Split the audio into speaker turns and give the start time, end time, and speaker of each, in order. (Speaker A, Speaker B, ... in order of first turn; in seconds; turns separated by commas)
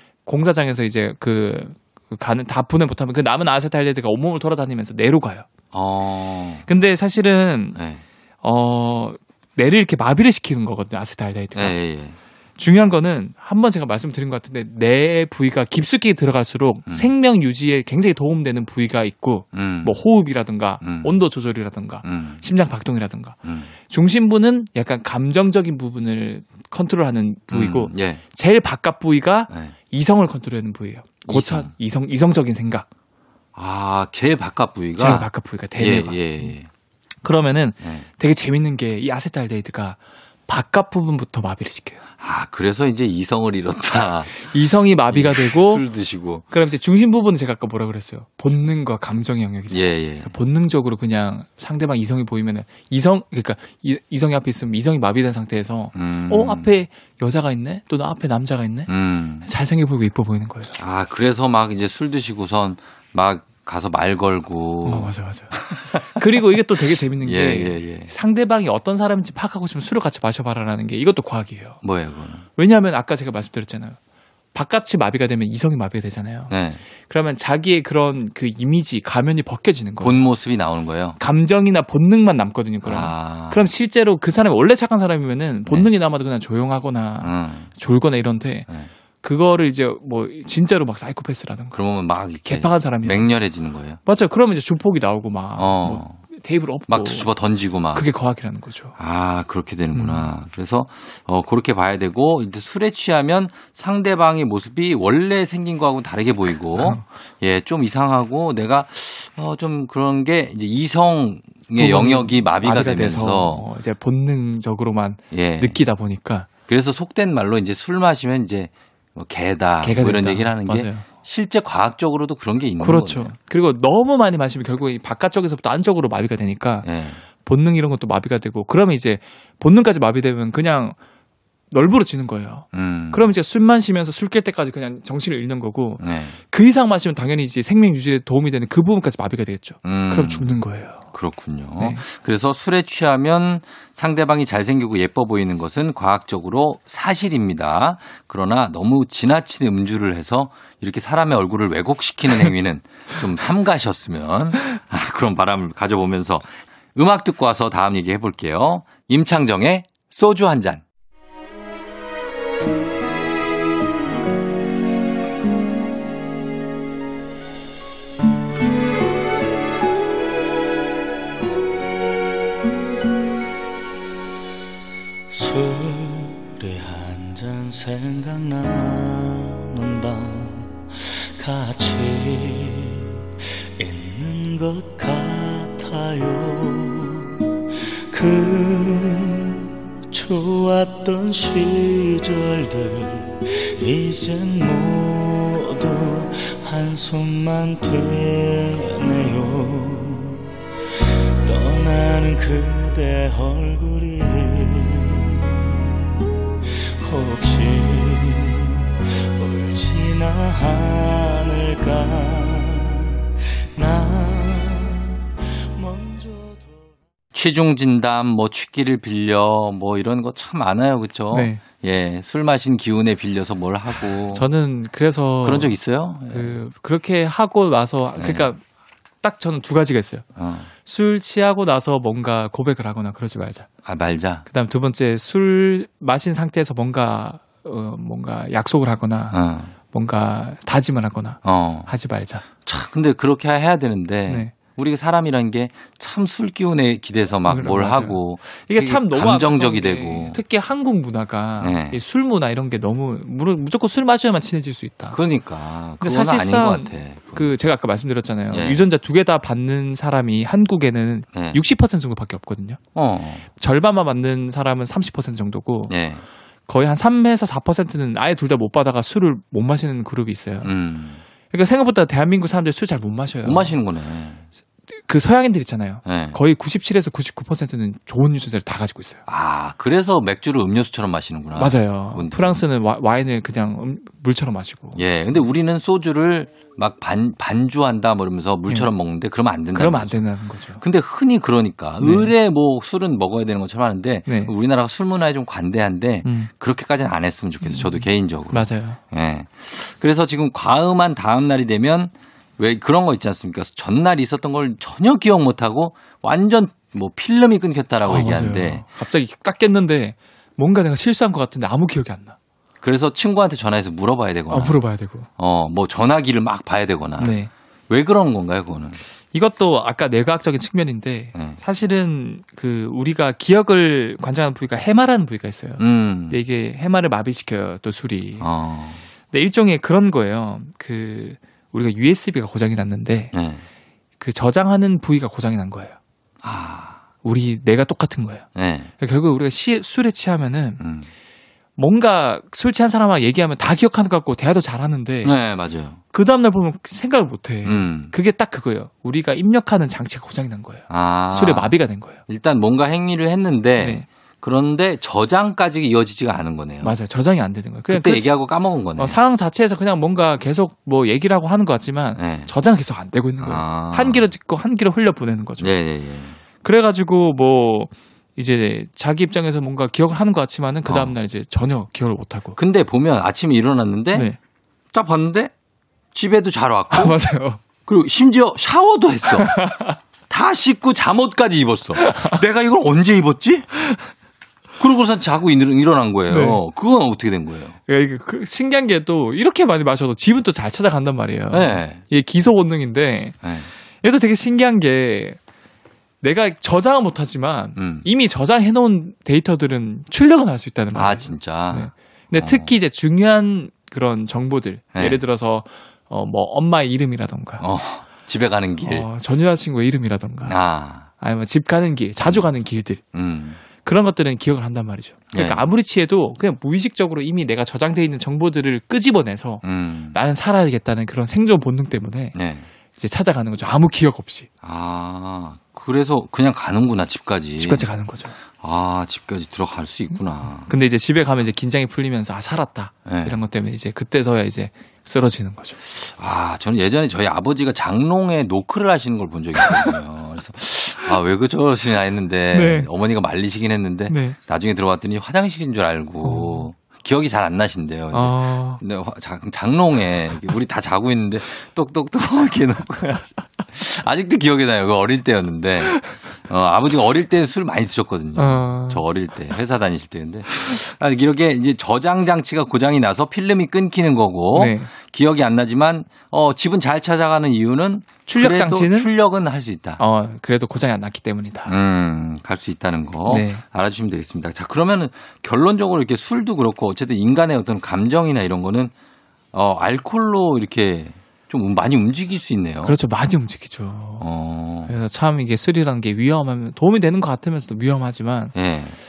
Speaker A: 0.3-5.5, Speaker B: 5.7-6.6, Speaker A: 6.7-7.8, Speaker B: 7.8-8.0, Speaker A: 8.4-11.8, Speaker B: 11.6-12.2, Speaker A: 12.6-23.4, Speaker B: 19.5-20.0, Speaker B: 20.8-21.2, Speaker B: 22.0-22.4, Speaker B: 23.4-23.7, Speaker A: 23.9-32.9, Speaker B: 27.5-28.2, Speaker B: 31.3-31.7, Speaker B: 33.5-36.7, Speaker A: 35.0-36.5, Speaker A: 37.2-42.0, Speaker B: 37.8-38.1, Speaker B: 42.2-44.5, Speaker A: 44.4-45.9, Speaker B: 45.1-46.5, Speaker A: 46.5-58.9, Speaker B: 49.7-50.3, Speaker B: 55.9-56.7, Speaker B: 58.9-59.5, Speaker A: 59.4-60.8, Speaker B: 60.8-68.1, Speaker A: 64.8-71.8, Speaker B: 71.8-72.5, Speaker A: 72.6-74.0, Speaker A: 74.5-76.5, Speaker B: 76.5-76.8, Speaker A: 77.1-80.2, Speaker B: 80.0-81.2, Speaker A: 81.2-88.7, Speaker B: 82.8-83.7, Speaker B: 87.2-87.7, Speaker A: 89.2-91.8, Speaker B: 91.7-94.0, Speaker A: 92.5-93.3, Speaker A: 94.1-97.3, Speaker B: 95.6-96.2, Speaker B: 96.9-98.1, Speaker A: 97.9-99.0, Speaker B: 99.0-113.6, Speaker A: 99.9-100.3, Speaker A: 106.8-107.0, Speaker A: 111.8-116.5, Speaker B: 115.3-115.8, Speaker B: 116.7-123.3, Speaker A: 119.8-121.1, Speaker A: 122.8-126.9, Speaker B: 126.8-127.2, Speaker A: 127.4-131.0, Speaker A: 131.7-141.1, Speaker B: 132.7-133.3, Speaker B: 136.0-136.4, Speaker B: 139.8-140.6, Speaker B: 141.1-160.8, Speaker A: 141.8-142.0, Speaker C: 175.3-187.4, Speaker C: 188.1-200.4, Speaker C: 201.4-205.8, Speaker C: 206.7-213.2, Speaker C: 213.8-215.2, Speaker C: 215.7-216.9, Speaker B: 217.3-224.4, Speaker A: 221.3-221.6, Speaker A: 224.3-225.8, Speaker B: 225.4-226.6, Speaker A: 226.3-228.6, Speaker B: 228.2-228.5, Speaker A: 229.2-230.2, Speaker B: 230.4-230.7, Speaker A: 230.8-233.7, Speaker B: 233.8-234.4, Speaker A: 234.5-239.4, Speaker B: 239.3-239.7, Speaker A: 239.9-242.4, Speaker B: 241.4-241.9, Speaker B: 242.6-250.4, Speaker A: 244.3-244.5, Speaker A: 247.5-255.2, Speaker B: 251.6-252.0, Speaker B: 255.1-257.5, Speaker A: 256.0-262.8, Speaker B: 258.5-258.8, Speaker B: 261.3-261.6, Speaker B: 262.9-263.5, Speaker A: 263.6-265.9, Speaker B: 265.9-266.2, Speaker A: 266.7-270.7, Speaker B: 270.6-271.2, Speaker A: 271.5-273.7, Speaker B: 273.4-274.4, Speaker A: 275.1-279.2, Speaker B: 276.1-276.4, Speaker B: 279.3-282.6, Speaker A: 281.6-285.0, Speaker B: 285.0-290.2, Speaker A: 289.7-290.8, Speaker B: 290.8-308.9, Speaker A: 292.0-292.3, Speaker A: 294.3-294.5, Speaker A: 296.2-296.5, Speaker A: 297.6-299.0, Speaker A: 308.0-312.4, Speaker B: 312.8-314.8, Speaker A: 314.5-315.3, Speaker B: 315.4-317.4, Speaker A: 317.2-317.5, Speaker B: 317.9-319.0, Speaker A: 319.3-328.5, Speaker B: 325.8-326.4, Speaker B: 328.4-329.0, Speaker A: 329.3-333.3, Speaker B: 333.3-333.6, Speaker A: 334.2-336.0, Speaker B: 336.4-337.0, Speaker A: 337.2-338.5, Speaker B: 338.6-338.9, Speaker A: 339.0-340.8, Speaker B: 340.8-341.1, Speaker A: 341.8-345.3, Speaker B: 345.2-346.0, Speaker A: 346.1-352.2, Speaker B: 347.6-348.1, Speaker B: 350.9-351.7, Speaker B: 352.3-357.0, Speaker A: 353.8-354.1, Speaker A: 356.8-358.3, Speaker B: 357.9-359.2, Speaker A: 359.0-365.7, Speaker B: 362.2-362.5, Speaker B: 363.4-364.2, Speaker B: 365.6-366.4, Speaker A: 366.6-372.6, Speaker B: 370.9-371.1, Speaker B: 372.6-374.3, Speaker B: 374.9-375.5, Speaker B: 376.1-377.2, Speaker A: 376.9-377.6, Speaker B: 377.9-379.7, Speaker A: 379.3-380.0, Speaker B: 380.3-383.7, Speaker A: 382.0-382.4, Speaker B: 384.8-387.8, Speaker A: 386.3-386.6, Speaker A: 387.9-393.4, Speaker B: 391.5-392.0, Speaker B: 393.4-393.7, Speaker A: 394.0-395.4, Speaker A: 396.2-407.6, Speaker B: 397.8-398.1, Speaker B: 400.9-402.7, Speaker B: 404.9-405.2, Speaker B: 407.6-409.1, Speaker A: 408.9-410.6, Speaker B: 410.4-411.1, Speaker A: 411.2-413.0, Speaker B: 412.2-412.5, Speaker B: 413.1-413.6, Speaker A: 413.8-422.4, Speaker B: 415.3-415.6, Speaker B: 419.6-420.2, Speaker B: 422.4-422.7, Speaker A: 423.0-424.5, Speaker B: 424.6-427.9, Speaker A: 427.6-428.4, Speaker B: 428.5-430.7, Speaker A: 430.7-435.8, Speaker B: 433.1-433.4, Speaker B: 436.0-470.0, Speaker A: 439.6-439.9, Speaker A: 442.5-442.9, Speaker A: 444.1-444.4, Speaker A: 446.2-446.7, Speaker A: 448.1-448.8, Speaker A: 458.4-459.1, Speaker A: 464.6-464.9, Speaker A: 468.3-469.1, Speaker A: 470.0-471.7, Speaker B: 471.7-478.9, Speaker A: 473.3-473.6, Speaker B: 479.5-483.0, Speaker A: 482.8-484.3, Speaker B: 484.2-484.9, Speaker A: 484.9-488.6, Speaker B: 488.6-489.0